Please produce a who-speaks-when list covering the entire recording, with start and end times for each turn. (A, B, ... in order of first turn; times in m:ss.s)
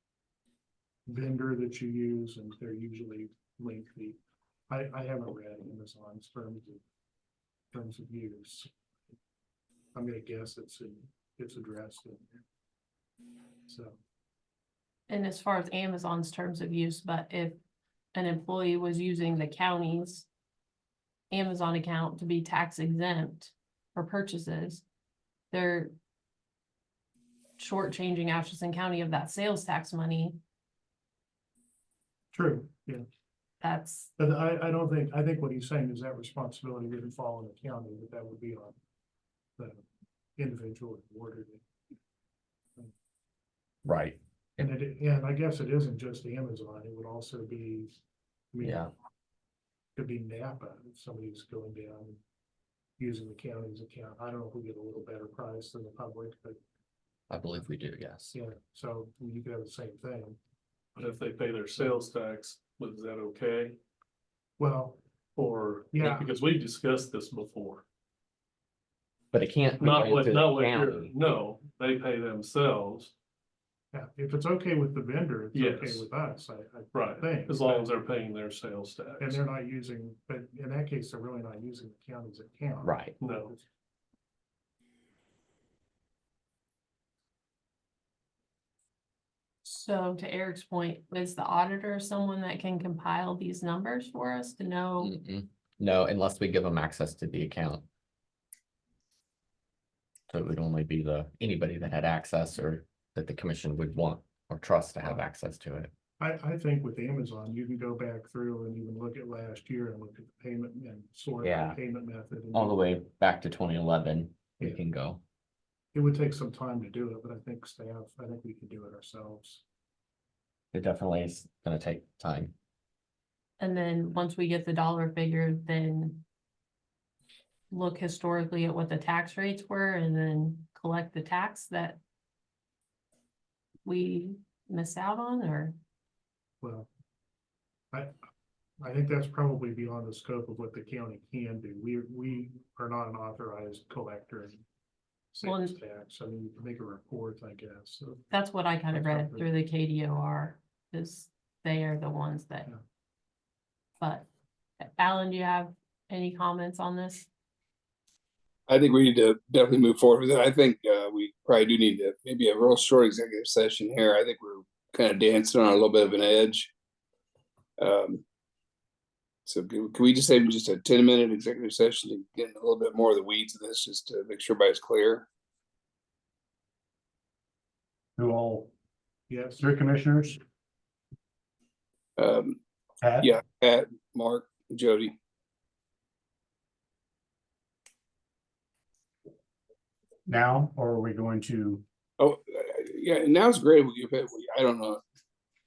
0:01.1-0:06.8 A
0:07.7-0:08.7 A
0:09.9-0:12.4 A
0:13.7-0:14.0 A
0:15.1-0:17.6 B
0:18.1-0:20.3 B
0:21.3-0:24.8 B
0:25.5-0:26.0 B
0:27.6-0:30.4 B
0:32.3-0:33.1 A
0:33.6-0:34.2 B
0:34.2-0:38.8 A
0:39.6-0:39.8 A
0:40.4-0:41.6 A
0:43.8-0:44.7 C
0:44.6-0:48.0 A
0:48.5-0:48.8 A
0:48.6-0:48.9 C
0:50.0-0:52.2 A
0:53.0-0:56.6 A
0:57.3-0:58.3 C
0:58.3-1:00.4 A
1:01.0-1:03.8 D
1:04.6-1:05.0 A
1:05.4-1:07.8 D
1:05.9-1:06.3 A
1:09.3-1:11.1 C
1:09.8-1:13.1 D
1:13.9-1:17.9 A
1:15.5-1:16.1 D
1:16.9-1:19.4 D
1:19.2-1:23.6 A
1:22.8-1:23.1 C
1:23.2-1:23.5 D
1:29.6-1:35.2 B
1:35.0-1:37.8 C
1:40.3-1:45.9 C
1:46.2-1:52.9 A
1:51.4-1:51.8 C
1:52.5-1:55.2 C
1:55.9-1:59.6 A
2:00.7-2:02.5 C
2:03.6-2:06.2 B
2:07.7-2:12.0 B
2:13.8-2:15.8 B
2:16.6-2:16.9 A
2:18.8-2:24.6 A
2:25.3-2:28.3 A
2:25.4-2:25.8 B
2:28.3-2:32.7 B
2:28.9-2:29.5 A
2:34.0-2:34.3 B
2:34.8-2:37.3 B
2:38.7-2:46.7 E
2:47.8-2:48.2 E
2:49.5-2:55.3 E
2:58.2-2:58.7 F
2:59.3-2:59.6 A
2:59.6-3:00.4 F
3:02.2-3:02.6 E
3:03.0-3:03.3 F
3:03.2-3:05.2 E
3:10.3-3:11.8 F
3:12.2-3:15.0 E